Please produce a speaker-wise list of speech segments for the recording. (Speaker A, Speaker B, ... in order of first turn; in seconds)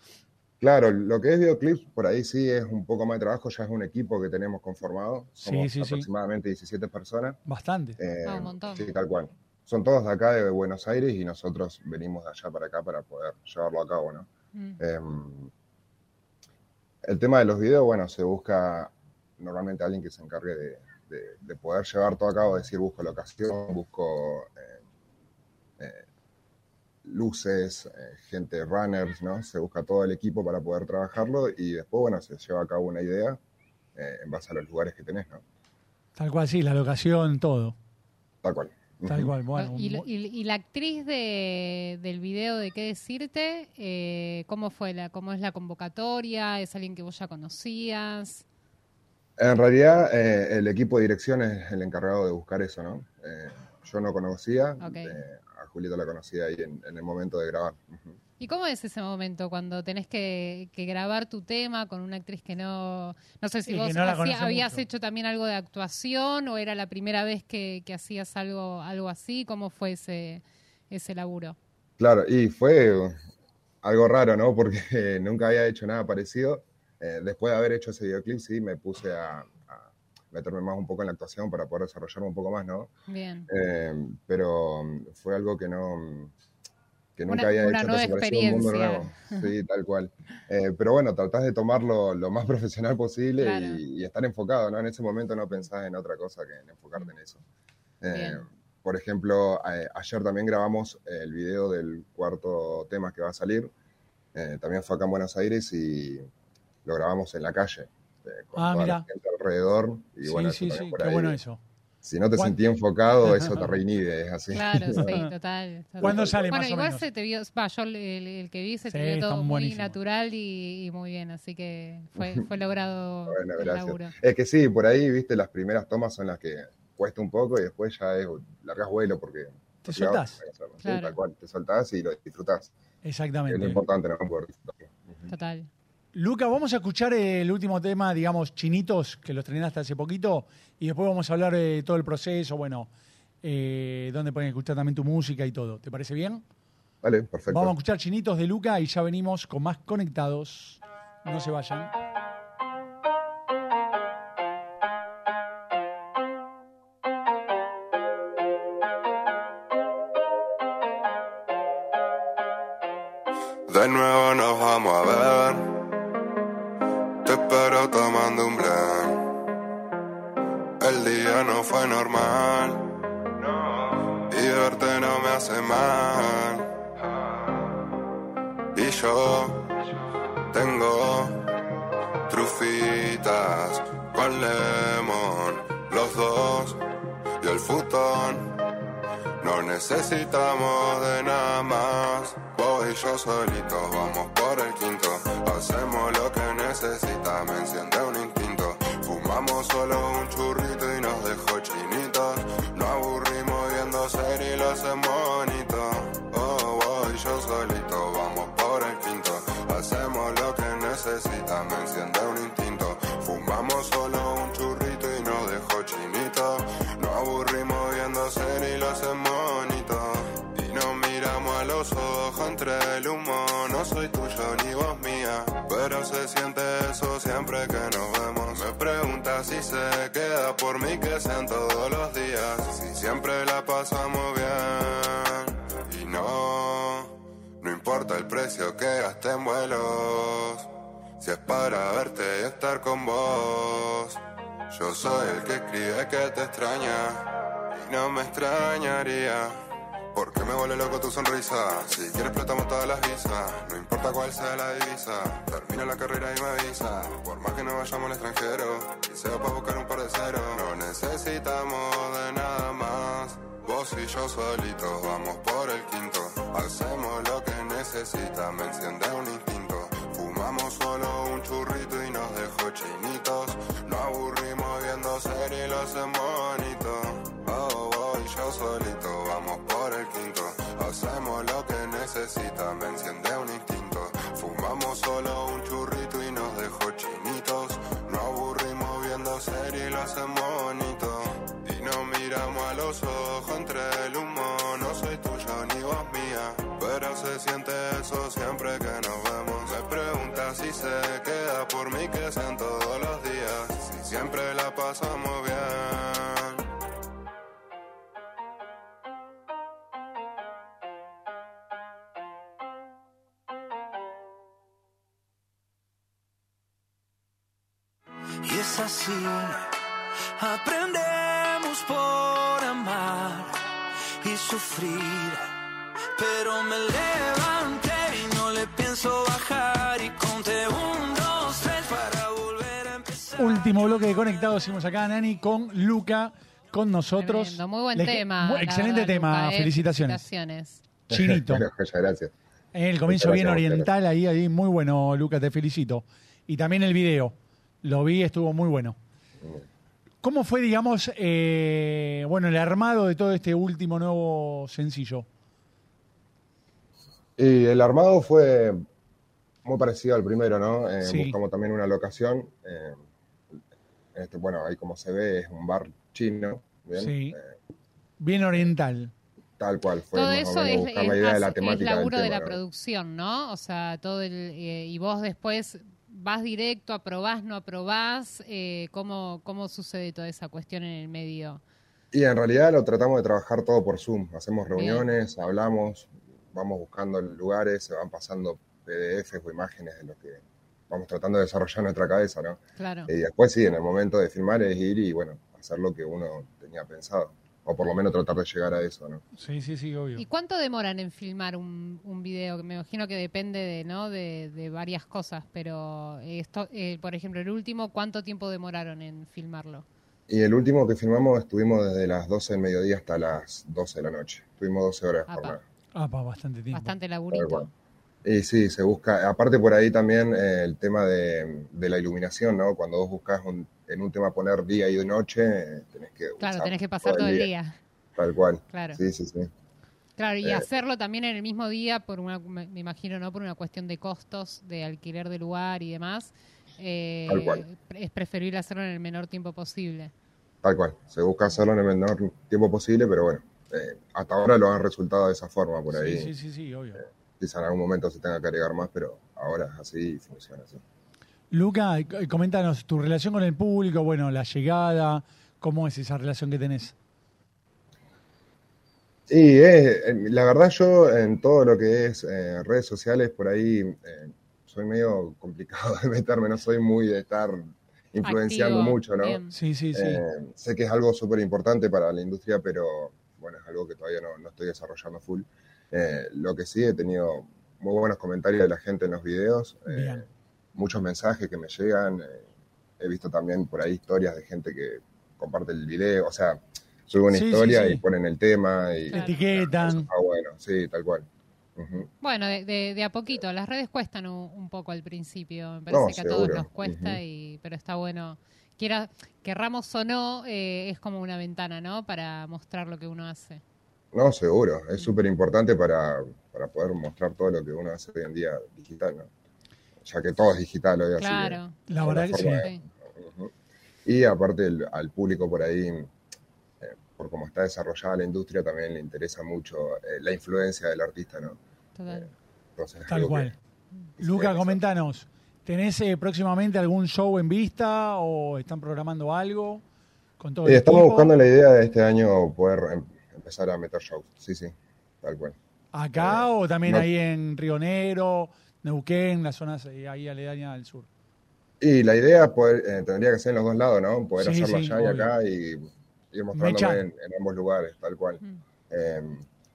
Speaker A: 0.6-7.4, 8.0-14.3, 14.8-15.5, 17.0-24.8, 25.8-26.0, 27.0-33.4, 34.0-35.4, 38.4-39.3, 49.4-58.2, 72.0-73.2, 73.8-82.9, 83.5-86.3, 87.2-97.4, 98.0-103.7, 104.3-106.2, 106.8-111.4, 112.0-115.2, 116.0-116.5, 122.2-122.4, 123.3-132.7, 133.5-135.3, 147.0-147.8, 341.1-342.3, 343.1-343.9, 357.4-358.8, 359.6-363.0, 364.1-367.5, 369.6-372.6, 382.1-399.2, 410.3-415.6, 417.3-417.7, 418.2-427.5, 428.2-429.5, 430.4-430.7, 437.3-437.7, 440.6-446.3, 447.0-450.8, 459.3-480.2, 480.8-482.4, 483.0-492.1, 495.9-497.2, 504.1-509.3, 510.0-513.5, 514.0-516.1, 516.8-523.5, 524.2-524.8, 530.6-535.5, 536.1-537.1, 541.8-549.5
Speaker B: 5.4-6.1, 7.5-8.0, 36.1-37.8, 39.1-40.0, 63.6-64.8, 108.5-109.0, 110.2-111.6, 113.2-113.6, 115.0-115.3, 116.0-117.0, 118.9-120.0, 129.8-130.3, 133.0-133.8, 136.1-142.9, 143.4-146.4, 147.5-151.9, 333.4-340.3, 341.1-341.6, 342.7-349.0, 350.2-355.3, 361.0-361.4, 367.0-367.4, 368.2-369.1, 399.4-400.2, 415.9-416.9, 445.9-447.0, 451.5-456.9, 469.5-470.2, 479.9-480.2, 487.3-488.0, 489.1-490.1, 511.9-512.6, 523.1-523.5, 524.2-529.8, 530.4-531.3, 535.9-541.1, 544.4-545.3, 546.5-547.0
Speaker C: 8.2-8.9, 14.5-14.8, 39.5-48.4, 54.8-55.2, 58.4-71.6, 83.1-83.5, 87.3-89.5, 93.4-93.8, 98.1-98.4, 114.5-124.1, 130.8-131.2, 135.3-135.7, 337.2-340.8, 370.1-381.6, 384.7-385.1, 392.8-393.1, 400.2-409.9, 415.3-415.6, 416.7-417.7, 426.4-427.8, 428.7-429.0, 430.2-440.1, 468.2-469.5, 489.1-489.4, 492.2-503.6, 511.2-511.8, 522.0-522.3
Speaker D: 163.7-165.7, 167.2-169.2, 170.8-172.8, 173.4-176.7, 178.7-179.7, 180.5-181.4, 182.3-186.8, 187.4-188.5, 189.4-249.6, 250.1-306.6
Speaker E: 318.4-319.7, 320.4-323.6, 324.2-325.4, 326.1-333.6